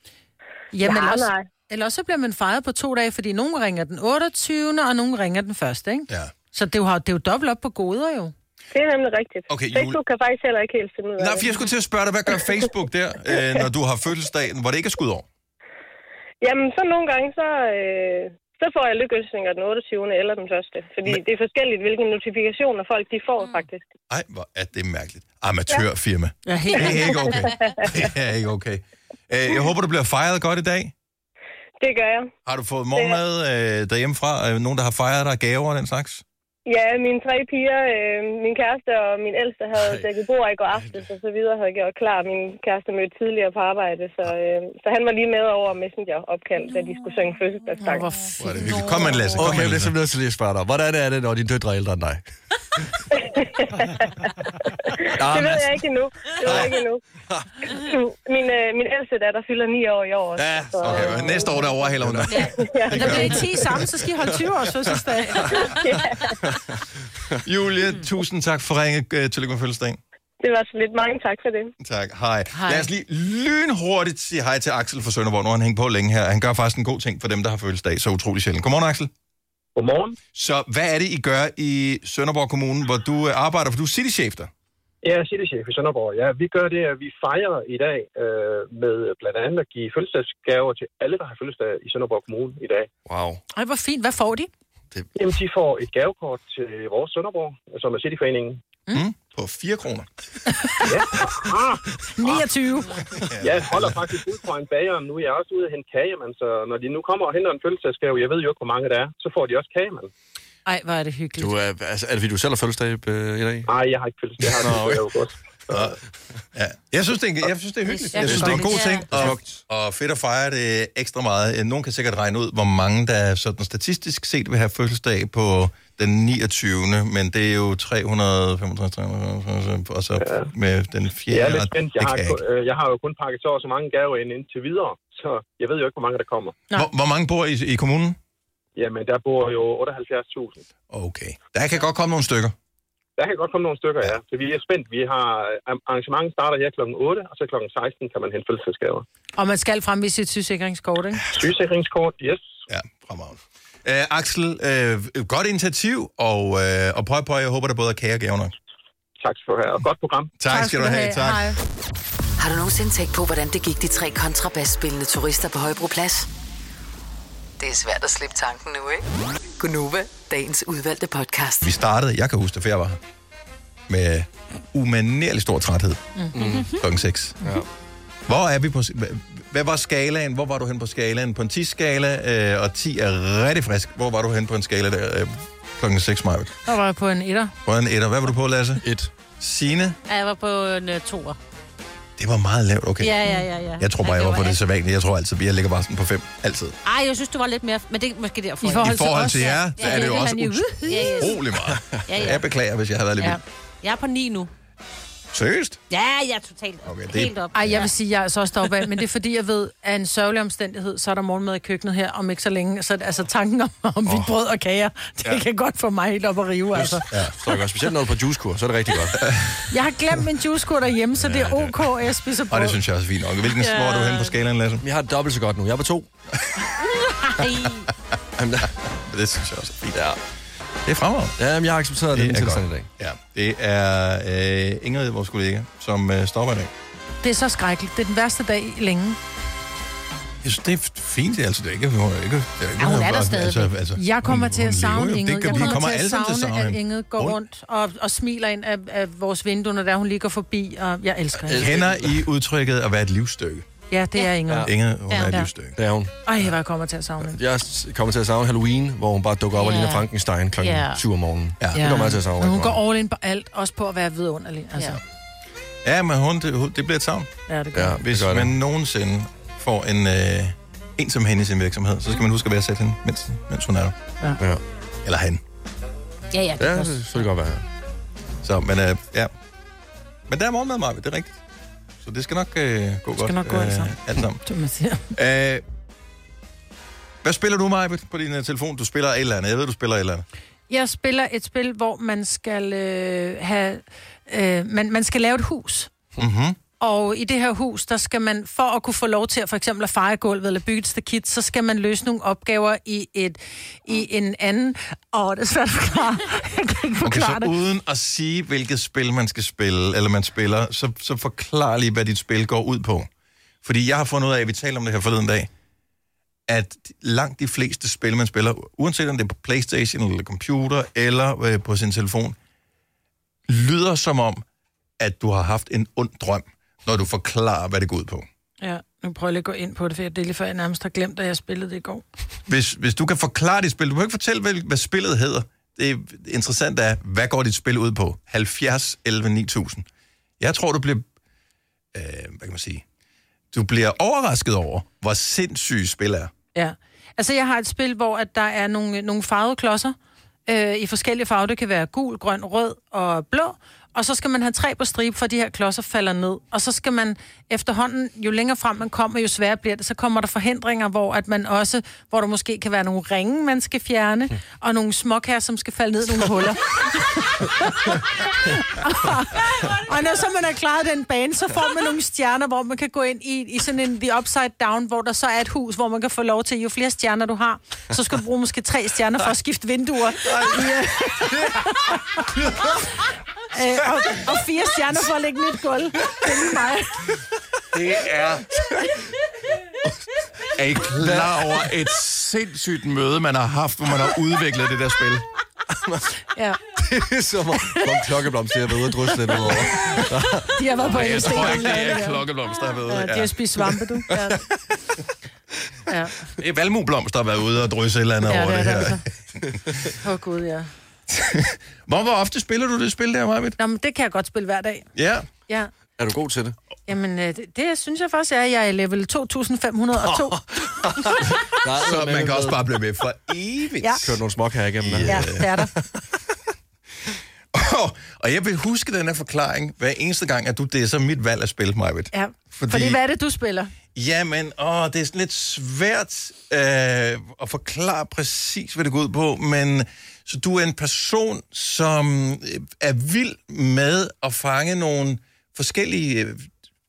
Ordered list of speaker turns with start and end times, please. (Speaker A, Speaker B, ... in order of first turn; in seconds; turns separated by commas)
Speaker A: 0.7-8.3, Speaker B: 0.8-1.5, Speaker B: 8.7-11.5, Speaker C: 9.5-10.0, Speaker C: 11.2-15.3, Speaker B: 16.4-23.9, Speaker C: 24.1-30.9, Speaker A: 26.5-27.3, Speaker B: 26.9-27.9, Speaker B: 31.8-32.3, Speaker C: 32.5-36.2, Speaker B: 32.9-33.2, Speaker B: 36.7-48.1, Speaker D: 39.7-40.1, Speaker D: 40.7-41.1, Speaker A: 47.8-49.3, Speaker C: 48.4-50.0, Speaker D: 49.4-52.2, Speaker B: 53.1-54.1, Speaker B: 55.0-57.0, Speaker D: 55.2-55.8, Speaker D: 56.4-56.7, Speaker B: 57.8-61.5, Speaker D: 60.4-61.5, Speaker C: 60.8-63.5, Speaker D: 62.0-62.4, Speaker B: 62.6-63.4, Speaker A: 62.9-65.7, Speaker E: 63.0-63.5, Speaker B: 65.6-66.4, Speaker C: 67.4-70.0, Speaker B: 70.4-71.7, Speaker C: 71.8-79.1, Speaker F: 79.8-80.2, Speaker C: 80.3-84.5, Speaker F: 85.0-92.9, Speaker D: 93.1-93.4, Speaker A: 93.5-94.5, Speaker F: 95.2-98.6, Speaker C: 98.9-100.1, Speaker A: 100.6-100.9, Speaker F: 100.9-101.8, Speaker A: 102.2-103.0, Speaker C: 103.2-104.0, Speaker F: 103.4-110.1, Speaker A: 110.7-111.5, Speaker D: 111.4-113.7, Speaker F: 113.7-115.8, Speaker D: 114.6-115.0, Speaker C: 115.7-116.0, Speaker C: 116.5-132.4, Speaker E: 117.9-119.1, Speaker A: 118.1-119.0, Speaker D: 118.2-119.6, Speaker F: 130.2-130.5, Speaker F: 131.3-136.6, Speaker C: 136.7-138.2, Speaker F: 138.8-140.7, Speaker C: 140.9-142.6, Speaker F: 143.2-149.1, Speaker A: 149.4-151.2, Speaker F: 151.3-152.5, Speaker C: 152.7-158.5, Speaker F: 159.2-160.3, Speaker C: 160.4-161.5, Speaker A: 160.5-161.6, Speaker G: 162.4-166.3, Speaker G: 167.6-169.0, Speaker G: 169.6-171.7, Speaker C: 171.6-173.0, Speaker C: 173.9-176.1, Speaker D: 176.3-176.7, Speaker E: 176.4-176.7, Speaker C: 176.7-177.4, Speaker C: 178.3-186.6, Speaker A: 186.7-187.5, Speaker C: 187.7-188.8, Speaker D: 188.8-189.1, Speaker C: 189.4-190.0, Speaker E: 190.1-191.4, Speaker C: 192.2-193.2, Speaker E: 193.0-194.6, Speaker C: 193.8-196.8, Speaker E: 196.8-200.3, Speaker A: 198.6-201.3, Speaker C: 198.8-203.4, Speaker E: 200.9-201.4, Speaker E: 202.1-202.4, Speaker E: 203.2-204.5, Speaker C: 205.3-205.8, Speaker E: 205.9-207.9, Speaker C: 206.8-207.9, Speaker A: 207.5-217.1, Speaker D: 214.1-214.3, Speaker D: 216.7-219.5, Speaker C: 219.2-219.6, Speaker A: 219.7-222.8, Speaker D: 221.2-221.7, Speaker C: 222.5-224.8, Speaker E: 223.6-224.3, Speaker D: 224.8-226.1, Speaker E: 227.4-227.9, Speaker D: 228.4-228.8, Speaker C: 229.0-230.2, Speaker C: 230.8-231.4, Speaker D: 231.4-232.9, Speaker C: 232.1-236.7, Speaker A: 237.2-239.2, Speaker C: 240.4-247.4, Speaker E: 242.8-243.7, Speaker A: 243.9-251.7, Speaker E: 245.5-245.8, Speaker D: 251.5-252.2, Speaker C: 251.5-253.7, Speaker A: 253.9-254.7, Speaker D: 254.5-254.7, Speaker C: 254.6-255.8, Speaker E: 255.1-255.4, Speaker D: 255.8-256.1, Speaker A: 256.2-257.4, Speaker D: 257.2-262.8, Speaker E: 259.6-261.0, Speaker C: 261.6-261.9, Speaker A: 261.7-265.0, Speaker C: 265.8-267.3, Speaker A: 267.5-268.0, Speaker D: 267.7-268.5, Speaker C: 268.0-274.0, Speaker C: 275.0-275.4, Speaker E: 276.3-277.3, Speaker D: 276.6-277.6, Speaker C: 278.4-279.3, Speaker C: 280.3-281.4, Speaker C: 282.0-284.4, Speaker A: 283.2-285.1, Speaker C: 285.1-285.6, Speaker C: 287.2-290.2, Speaker A: 290.7-295.9, Speaker C: 296.2-296.6, Speaker A: 296.8-307.5, Speaker C: 307.0-313.1, Speaker C: 313.6-315.5, Speaker C: 316.5-322.4, Speaker C: 323.5-324.4, Speaker C: 325.0-328.3, Speaker A: 328.6-332.0, Speaker C: 332.5-339.9, Speaker C: 340.4-341.1, Speaker C: 341.9-342.8, Speaker C: 343.5-346.3, Speaker A: 346.6-349.9, Speaker A: 350.5-382.3, Speaker A: 383.5-387.1, Speaker C: 387.7-388.5, Speaker C: 390.5-395.3, Speaker D: 391.0-391.5, Speaker D: 395.7-396.1, Speaker A: 396.4-396.6, Speaker D: 396.8-401.6, Speaker A: 400.5-402.2, Speaker C: 400.8-403.6, Speaker A: 402.9-404.4, Speaker D: 404.1-404.4, Speaker A: 405.9-406.2, Speaker C: 406.4-409.1, Speaker A: 408.3-409.0, Speaker A: 409.9-410.7, Speaker C: 411.1-413.6, Speaker A: 413.6-414.9, Speaker C: 414.9-415.3, Speaker D: 416.0-416.6, Speaker A: 416.9-420.4, Speaker D: 420.1-422.6, Speaker C: 421.7-424.2, Speaker D: 424.0-425.6, Speaker C: 424.8-425.5, Speaker A: 425.1-425.7, Speaker C: 427.5-433.0, Speaker A: 432.1-433.7, Speaker C: 433.9-446.5